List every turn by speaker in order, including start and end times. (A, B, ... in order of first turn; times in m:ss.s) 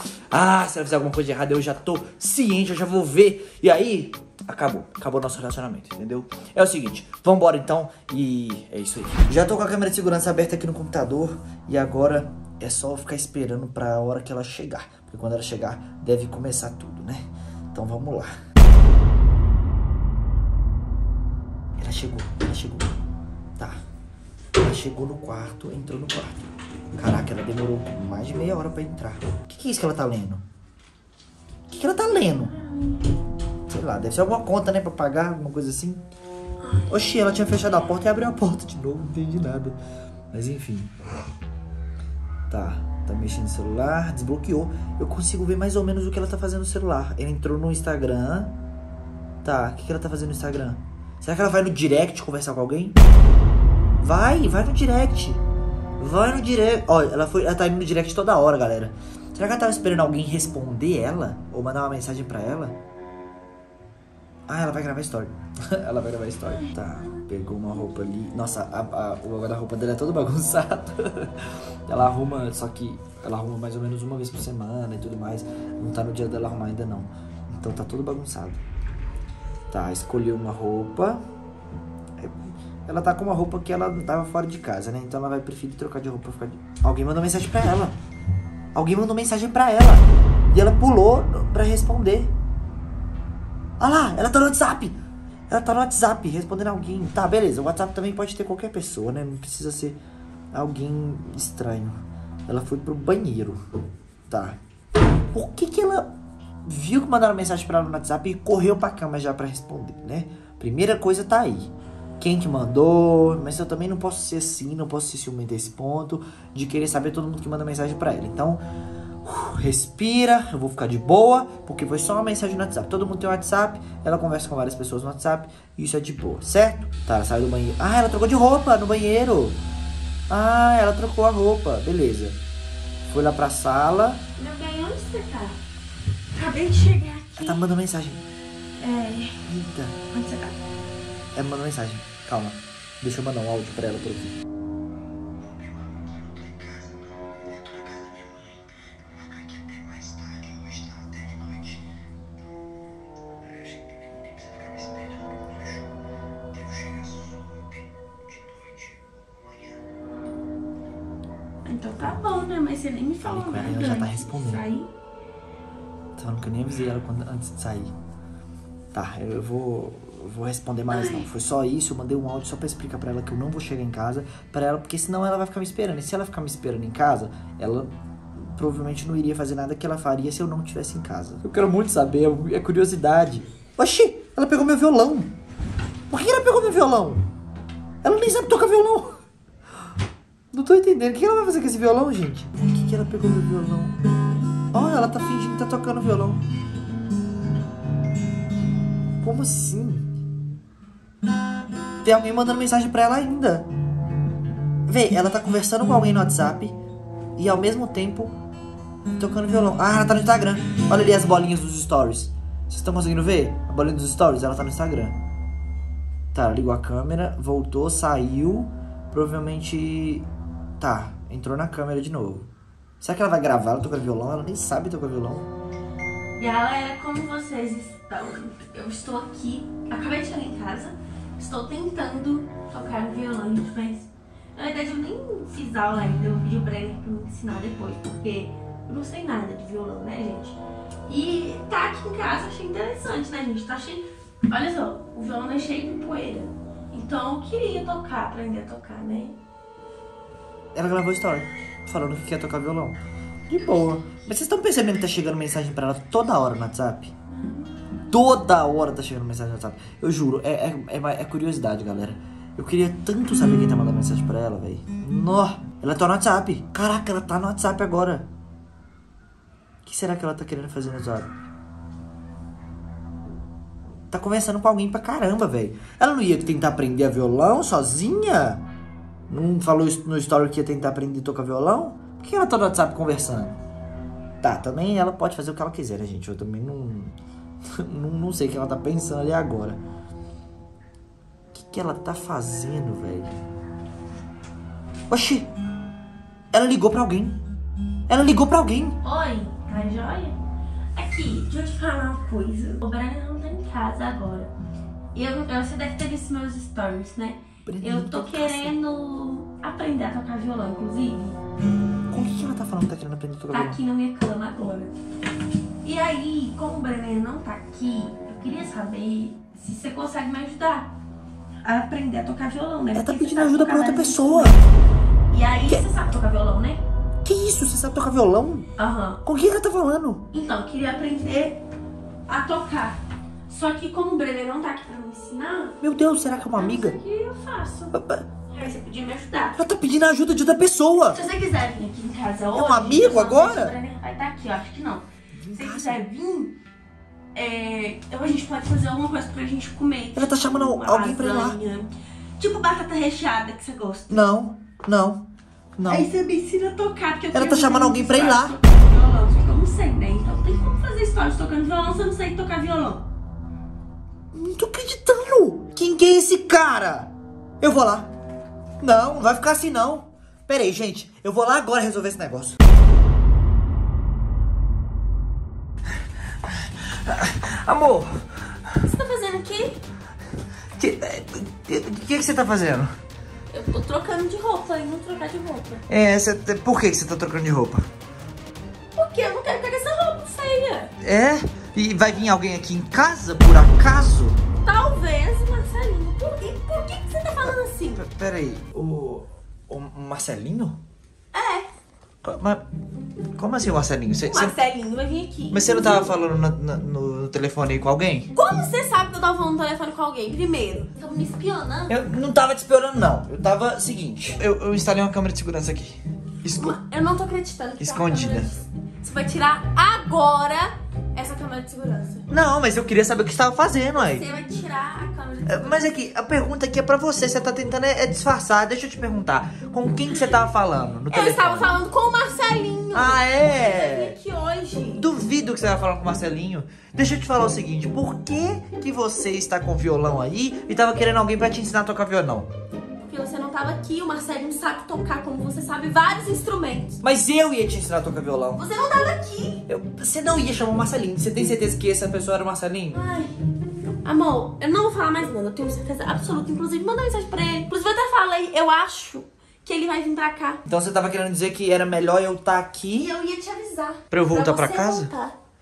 0:00.3-0:18.3 A
0:21.8-0:22.9 A
0:24.6-0:26.4 A
0:26.9-0:30.4 A
0:31.7-0:32.5 A
0:32.5-0:33.0 B
0:33.7-0:36.0 A
0:36.6-0:36.9 B
0:36.9-0:39.8 A
0:40.3-0:40.9 A
0:42.5-0:48.5 A
0:49.4-0:53.0 A
0:54.0-0:55.4 A
0:56.0-1:02.8 A
1:04.5-1:18.6 A
1:19.7-1:21.2 A
1:22.2-1:28.0 A
1:28.7-1:32.3 A
1:33.8-1:35.0 A
1:35.5-1:40.0 A
1:40.5-1:43.6 A
1:44.3-1:44.6 A
1:45.3-1:46.1 A
1:46.6-1:58.6 A
1:59.2-2:09.6 A
2:10.3-2:12.4 A
2:13.0-2:14.2 A
2:14.4-2:15.6 B
2:16.3-2:17.6 B
2:17.4-2:18.2 A
2:18.8-2:19.4 B
2:19.4-2:20.1 A
2:20.1-2:20.6 B
2:21.3-2:24.3 A
2:29.7-2:31.4 A
2:41.6-2:44.9 B
2:43.2-2:44.6 A
2:46.2-2:47.9 A
2:48.9-3:05.3 A
2:50.9-2:51.3 B
3:06.1-3:07.2 A
3:08.0-3:09.2 A
3:10.5-3:14.0 A
3:14.7-3:16.4 A
3:19.2-3:20.1 A
3:22.0-3:23.7 A
3:24.9-3:26.8 A
3:27.4-3:28.3 A
3:29.2-3:35.2 A
3:36.3-3:40.3 A
3:40.8-3:42.5 A
3:43.0-3:45.5 A
3:46.4-4:09.4 B
4:10.7-4:17.1 A
4:17.3-4:17.8 B
4:18.1-4:28.3 A
4:29.8-4:31.3 A
4:34.1-4:38.6 A
4:39.3-4:43.6 A
4:44.4-4:47.2 A
4:47.7-4:49.8 A
4:51.5-4:53.3 A
4:55.1-4:55.5 A
4:56.5-4:57.4 A
4:58.1-4:59.0 A
4:59.0-5:00.4 B
5:01.0-5:04.5 B
5:05.1-5:11.4 B
5:07.6-5:08.7 A
5:12.1-5:13.8 A
5:13.5-5:15.0 B
5:15.8-5:20.9 B
5:21.6-5:24.7 B
5:22.9-5:24.6 A
5:25.3-5:26.8 B
5:27.2-5:28.7 A
5:28.8-5:29.2 B
5:29.2-5:30.2 A
5:30.3-5:31.6 B
5:32.3-5:33.0 B
5:33.5-5:35.8 B
5:35.8-5:37.0 A
5:36.5-5:37.9 B
5:37.9-5:38.2 A
5:38.5-5:39.6 B
5:39.6-5:41.2 A
5:41.1-5:46.6 B
5:42.5-5:43.7 A
5:45.3-5:46.0 A
5:47.3-5:54.2 B
5:50.1-5:51.6 A
5:54.1-5:55.2 A
5:55.8-5:56.1 A
5:55.8-6:03.1 B
5:57.3-5:58.5 A
6:04.3-6:08.1 A
6:08.8-6:12.6 A
6:16.6-6:18.3 A
6:18.8-6:19.8 B
6:20.8-6:22.9 A
6:23.5-6:25.8 B
6:25.9-6:27.9 A
6:28.9-6:30.9 B
6:31.0-6:34.4 A
6:34.6-6:38.0 B
6:37.9-6:40.8 A
6:41.3-6:41.7 B
6:42.2-6:42.6 A
6:43.4-6:44.5 A
6:44.2-6:46.1 B
6:45.5-6:48.3 A
6:48.3-6:52.0 B
6:51.9-6:56.8 A
6:56.5-7:02.3 B
6:57.8-6:58.5 A
7:02.3-7:04.2 A
7:03.9-7:05.9 B
7:05.4-7:11.8 A
7:10.1-7:10.4 B
7:11.1-7:15.0 B
7:12.9-7:14.2 A
7:15.0-7:22.5 A
7:23.0-7:27.0 B
7:27.0-7:28.6 A
7:28.5-7:29.6 B
7:29.7-7:33.0 A
7:32.9-7:33.3 B
7:34.0-7:40.6 B
7:40.6-7:43.1 A
7:43.0-7:45.3 B
7:44.1-7:45.1 A